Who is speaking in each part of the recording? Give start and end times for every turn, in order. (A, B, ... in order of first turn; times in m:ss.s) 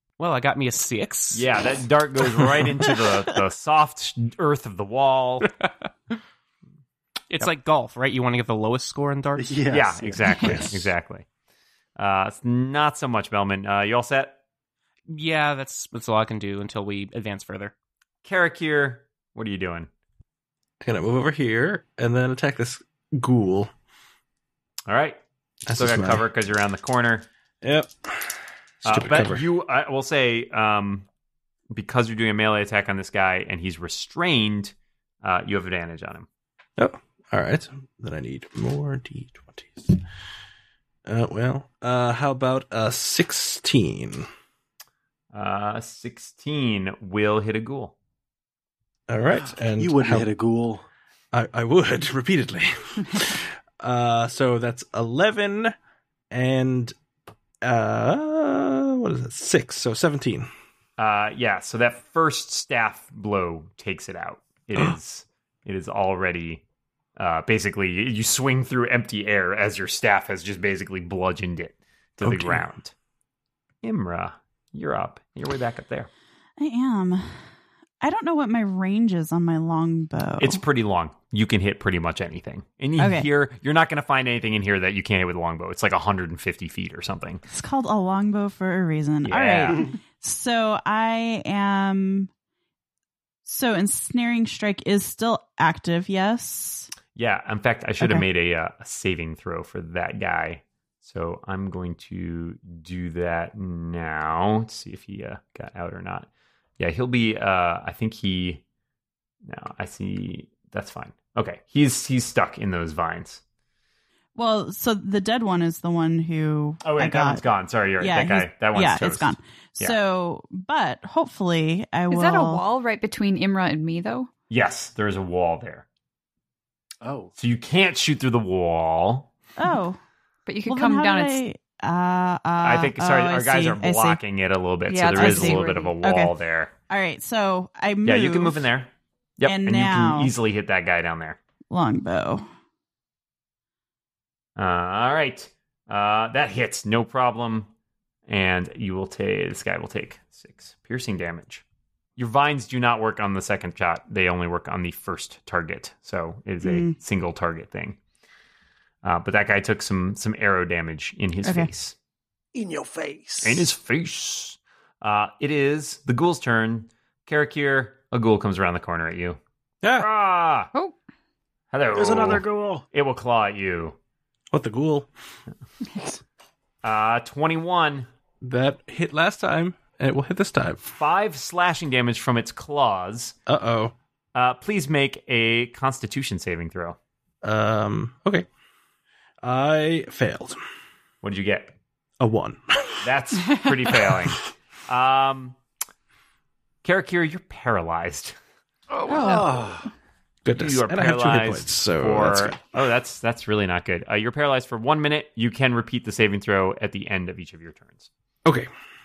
0:00.2-0:01.5 A
0:01.3-0:05.5 B
0:07.3-0:10.8 A
0:09.4-0:10.5 C
0:09.7-0:11.3 B
0:12.0-0:14.4 B
0:15.1-0:17.7 A
0:18.2-0:19.9 B
0:20.8-0:23.7 D
0:24.9-0:27.3 B
0:25.7-0:26.3 D
0:27.6-0:28.3 D
0:28.8-0:29.4 D
0:28.8-0:31.1 B
0:31.7-0:36.3 B
0:36.8-0:40.0 D
0:41.1-0:44.3 D
0:45.3-0:47.9 B
0:49.1-0:50.3 D
0:49.3-0:50.9 C
0:51.3-0:55.7 D
0:56.3-0:57.0 D
0:57.6-1:00.5 D
1:01.0-1:06.6 B
1:07.2-1:12.9 B
1:12.2-1:12.7 D
1:13.8-1:16.1 B
1:16.6-1:17.4 E
1:18.0-1:20.6 E
1:20.4-1:27.4 B
1:23.0-1:23.3 E
1:27.5-1:32.3 E
1:29.2-1:29.9 B
1:33.5-1:36.9 E
1:37.2-1:46.3 B
1:46.8-1:48.6 B
1:49.4-1:53.4 B
1:54.4-1:57.4 E
1:56.8-2:00.0 B
1:58.0-2:02.6 E
2:02.1-2:04.3 F
2:04.5-2:05.8 B
2:07.0-2:07.3 C
2:07.4-2:09.3 B
2:09.6-2:10.0 E
2:10.5-2:11.4 F
2:10.7-2:14.2 E
2:12.6-2:16.7 B
2:14.9-2:16.0 F
2:15.2-2:16.3 E
2:16.9-2:18.6 E
2:18.0-2:21.4 B
2:19.5-2:20.3 E
2:21.7-2:22.5 E
2:24.6-2:27.7 B
2:28.3-2:31.6 B
2:32.2-2:38.0 B
2:36.6-2:37.0 E
2:39.0-2:42.0 B
2:41.4-2:41.7 E
2:42.5-2:43.7 C
2:43.4-2:49.4 B
2:49.8-2:50.1 D
2:50.0-2:50.7 B
2:51.7-2:54.0 B
2:51.9-2:52.8 C
2:54.5-2:55.1 D
2:56.8-2:58.1 B
2:58.4-3:00.9 D
3:01.0-3:03.4 B
3:03.5-3:03.9 D
3:04.4-3:07.0 B
3:07.4-3:08.5 D
3:09.4-3:10.6 D
3:11.2-3:11.7 B
3:12.2-3:13.1 D
3:13.0-3:15.6 B
3:13.9-3:14.3 D
3:16.8-3:18.4 B
3:19.1-3:19.9 C
3:20.4-3:22.6 D
3:20.5-3:28.1 B
3:28.5-3:28.7 D